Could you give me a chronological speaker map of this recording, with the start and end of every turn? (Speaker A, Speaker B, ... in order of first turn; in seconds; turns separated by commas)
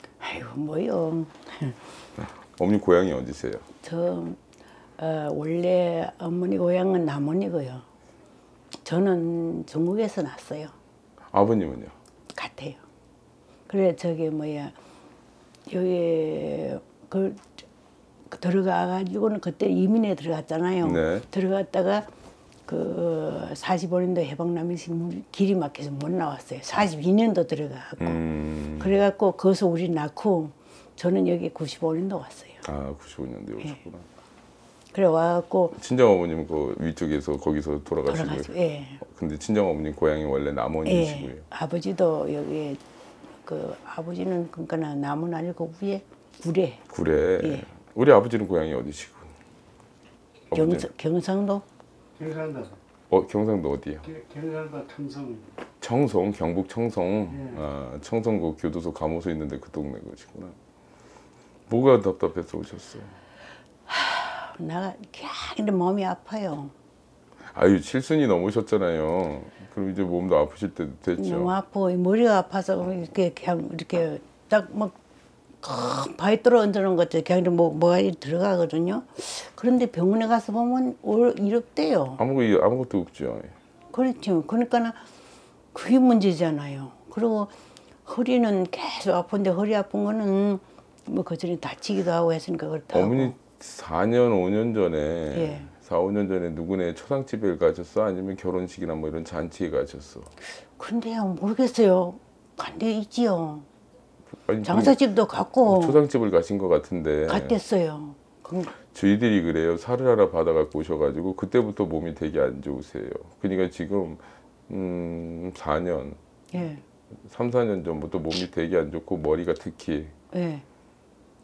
Speaker A: 0.2-1.8, Speaker B: 2.2-3.6, Speaker A: 3.8-4.4, Speaker A: 5.0-7.8, Speaker A: 8.8-10.7, Speaker B: 11.3-11.9, Speaker A: 12.3-12.8, Speaker A: 13.7-14.7, Speaker A: 15.7-17.6, Speaker A: 18.3-22.1, Speaker B: 20.8-21.2, Speaker A: 22.7-28.2, Speaker B: 28.0-28.9, Speaker A: 28.8-32.6, Speaker B: 32.6-34.0, Speaker A: 34.9-35.8, Speaker B: 35.8-41.4, Speaker A: 38.1-39.0, Speaker A: 40.8-42.8, Speaker A: 43.4-46.8, Speaker B: 46.9-49.3, Speaker A: 47.4-47.7, Speaker B: 50.5-50.9, Speaker A: 50.5-51.6, Speaker C: 52.2-52.8, Speaker B: 53.1-54.1, Speaker C: 54.1-55.5, Speaker B: 55.8-60.5, Speaker B: 61.7-63.1, Speaker A: 63.9-66.7, Speaker B: 67.5-71.5, Speaker A: 71.2-75.0, Speaker A: 75.6-82.2, Speaker B: 82.2-83.5, Speaker A: 83.9-85.0, Speaker A: 85.7-87.5, Speaker A: 88.0-93.3, Speaker B: 92.9-100.3, Speaker A: 95.3-95.7, Speaker A: 100.6-103.7, Speaker B: 104.5-105.0, Speaker A: 104.6-106.0, Speaker B: 105.7-107.5, Speaker A: 107.3-108.7, Speaker B: 108.8-116.2, Speaker A: 116.5-116.8, Speaker B: 117.2-120.1, Speaker A: 120.3-120.6